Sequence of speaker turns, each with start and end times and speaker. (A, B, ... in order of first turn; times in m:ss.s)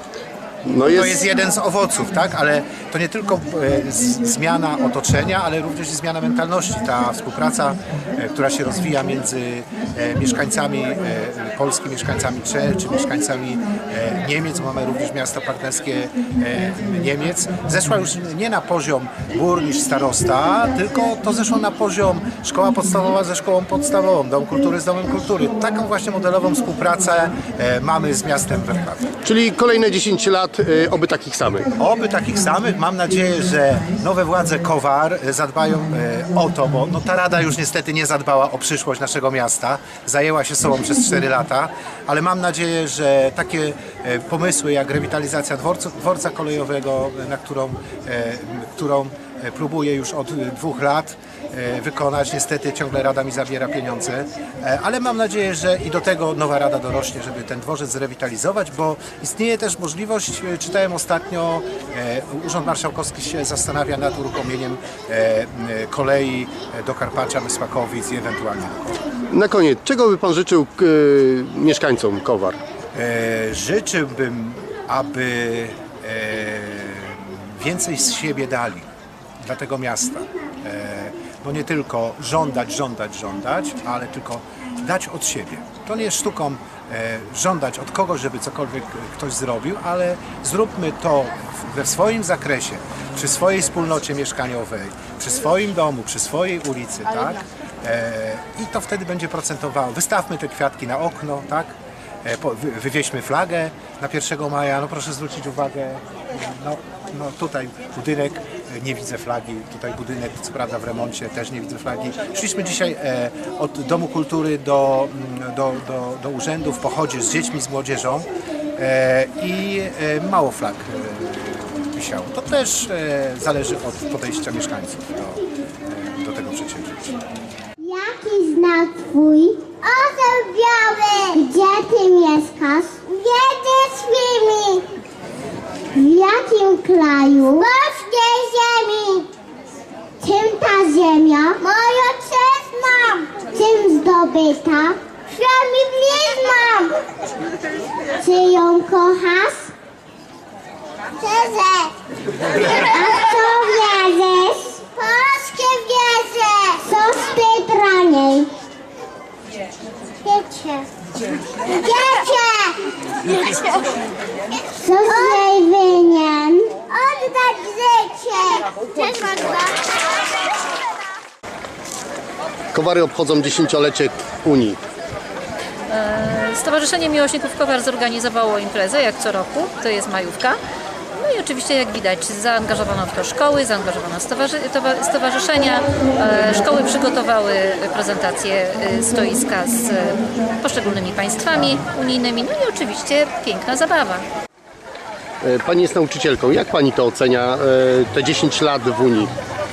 0:00.6-0:01.2 A
0:00.8-0:29.1 B
0:29.2-0:31.7 A
0:31.8-1:09.1 B
1:09.3-1:12.6 A
1:12.9-1:18.9 B
1:19.4-2:07.2 B
2:07.8-2:14.8 C
2:15.9-2:19.3 C
2:20.2-2:27.0 C
2:28.2-2:29.7 C
2:31.2-2:31.9 C
2:32.5-2:38.5 C
2:40.2-2:40.9 C
2:41.7-2:42.8 C
2:44.7-2:49.8 C
2:52.7-2:54.8 A
2:55.9-3:00.6 D
3:01.1-3:14.3 D
3:15.4-3:19.3 A